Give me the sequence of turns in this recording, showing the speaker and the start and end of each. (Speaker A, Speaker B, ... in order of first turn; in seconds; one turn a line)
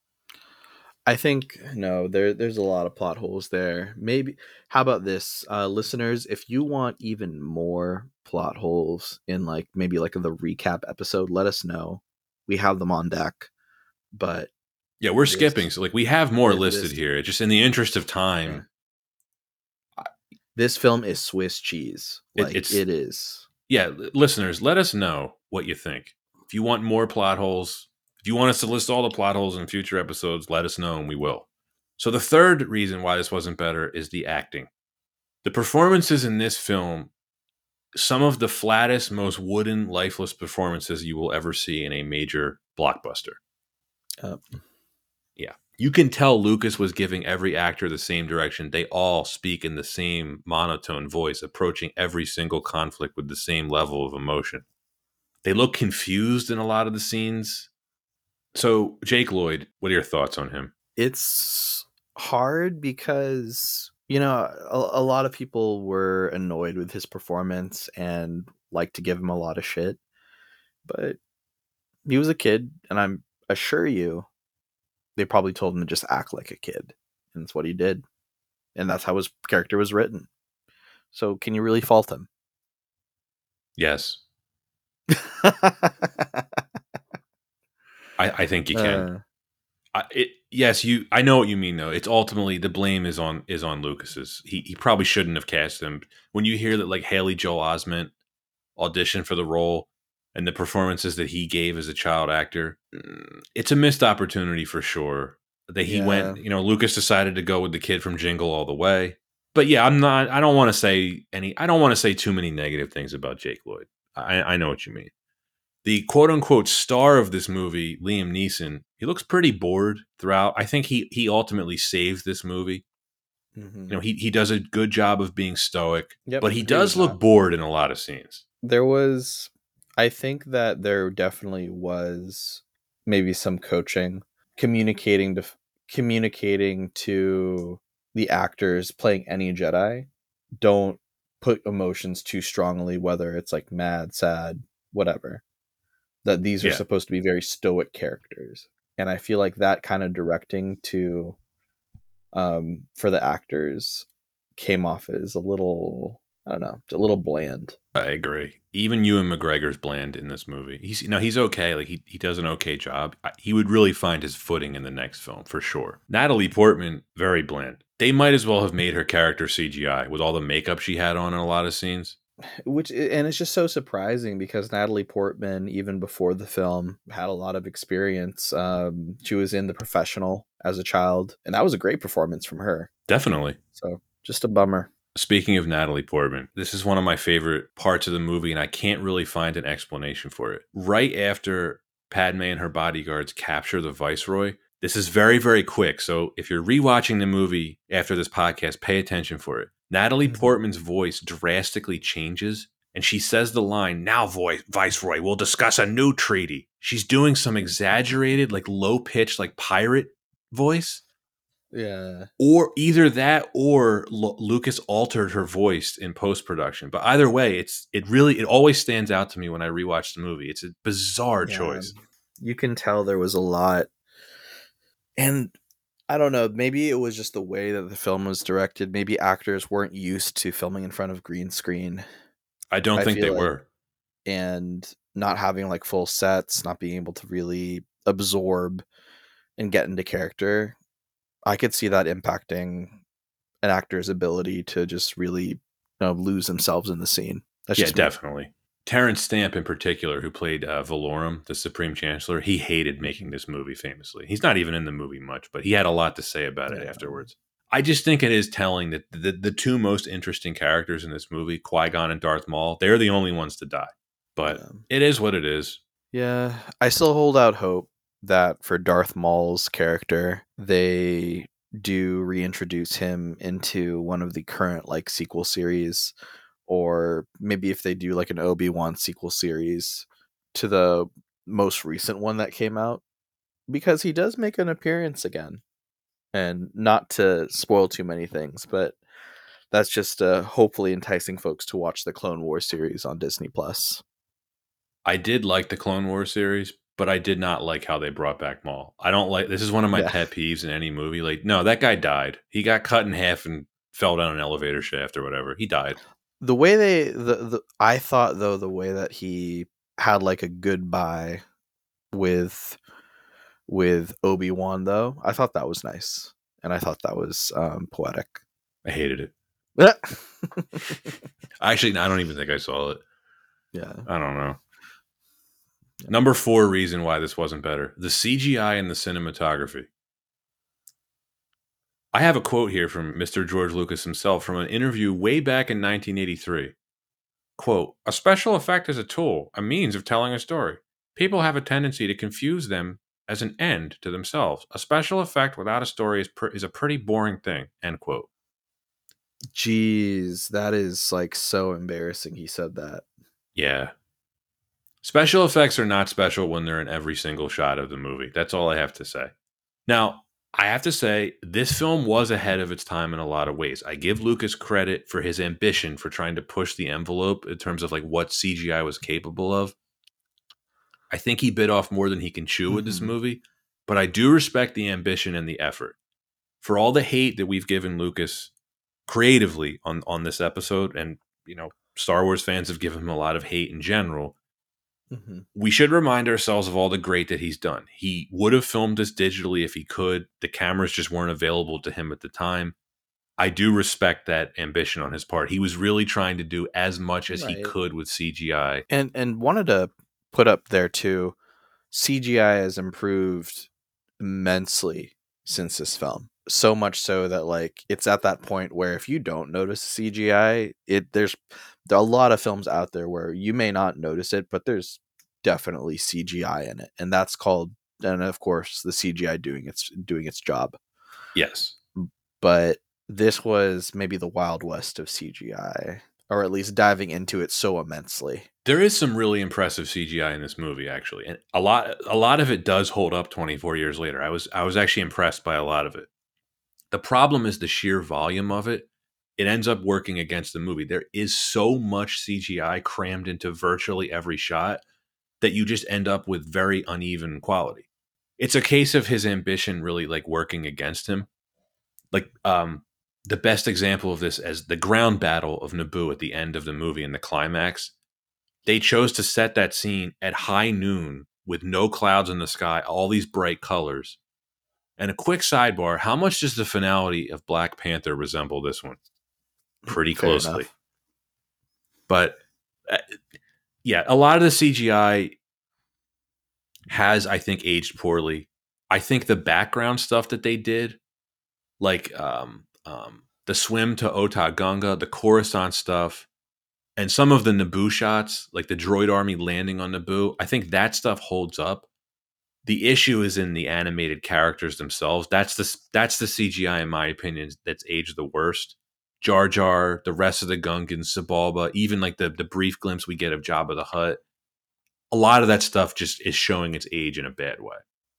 Speaker A: 1.1-13.5
Speaker A: 14.1-14.5
Speaker B: 15.0-18.6
Speaker A: 15.3-15.7
Speaker A: 16.5-17.0
Speaker A: 20.0-23.5
Speaker B: 22.4-22.8
Speaker B: 23.7-31.5
Speaker B: 32.0-34.7
Speaker B: 35.4-37.1
Speaker B: 37.9-43.4
Speaker A: 44.2-44.6
Speaker B: 45.4-54.6
Speaker B: 55.4-57.7
Speaker B: 58.5-60.7
Speaker A: 61.0-70.0
Speaker A: 70.8-71.2
Speaker A: 72.1-74.3
Speaker A: 75.2-78.0
Speaker A: 78.8-80.3
Speaker A: 81.1-82.3
Speaker B: 83.8-84.2
Speaker A: 85.1-86.6
Speaker B: 88.2-89.1
Speaker A: 88.7-89.2
Speaker B: 89.9-98.1
Speaker B: 98.8-115.1
Speaker A: 105.8-106.4
Speaker B: 115.8-122.8
Speaker A: 123.6-124.0
Speaker B: 123.9-128.4
Speaker A: 126.3-127.2
Speaker A: 128.6-145.4
Speaker A: 146.2-151.4
Speaker A: 152.3-157.8
Speaker B: 157.9-172.2
Speaker A: 172.6-182.9
Speaker B: 183.1-183.6
Speaker A: 183.8-184.9
Speaker B: 185.2-211.0
Speaker A: 200.3-200.5
Speaker A: 211.7-212.3
Speaker B: 212.4-221.9
Speaker A: 221.5-223.9
Speaker A: 225.2-225.6
Speaker A: 226.1-232.0
Speaker B: 232.7-233.7
Speaker A: 232.9-233.5
Speaker A: 234.2-238.8
Speaker A: 239.6-240.8
Speaker A: 241.4-243.0
Speaker A: 243.6-248.1
Speaker B: 247.8-265.8
Speaker A: 253.0-253.3
Speaker A: 256.7-257.3
Speaker A: 264.5-264.9
Speaker A: 266.1-276.1
Speaker A: 276.7-283.0
Speaker A: 283.7-285.6
Speaker A: 286.3-289.0
Speaker A: 289.7-294.0
Speaker B: 295.1-306.0
Speaker A: 306.4-311.4
Speaker A: 312.1-312.8
Speaker A: 313.7-318.4
Speaker B: 318.9-319.3
Speaker A: 319.8-321.1
Speaker B: 321.6-323.0
Speaker A: 323.7-324.1
Speaker B: 324.1-324.6
Speaker B: 326.1-329.9
Speaker B: 332.1-336.8
Speaker B: 337.6-348.3
Speaker A: 349.5-353.1
Speaker B: 353.6-353.9
Speaker B: 355.0-359.3
Speaker B: 359.9-369.8
Speaker B: 371.1-376.0
Speaker A: 372.7-373.1
Speaker B: 376.6-378.5
Speaker B: 379.1-384.4
Speaker A: 385.1-385.5
Speaker B: 385.6-392.8
Speaker B: 393.4-398.9
Speaker A: 397.3-397.7
Speaker A: 398.9-401.4
Speaker A: 401.9-403.7
Speaker A: 404.2-420.8
Speaker B: 421.4-421.8
Speaker A: 422.0-428.5
Speaker B: 428.6-436.1
Speaker B: 436.9-444.8
Speaker B: 445.4-447.9
Speaker B: 448.4-451.3
Speaker B: 452.1-457.9
Speaker B: 458.7-464.2
Speaker B: 465.0-469.0
Speaker A: 469.8-470.7
Speaker B: 469.9-470.7
Speaker B: 472.1-473.2
Speaker B: 473.8-475.4
Speaker B: 476.9-481.0
Speaker B: 481.8-486.3
Speaker B: 487.0-491.9
Speaker B: 492.6-504.2
Speaker B: 505.1-507.8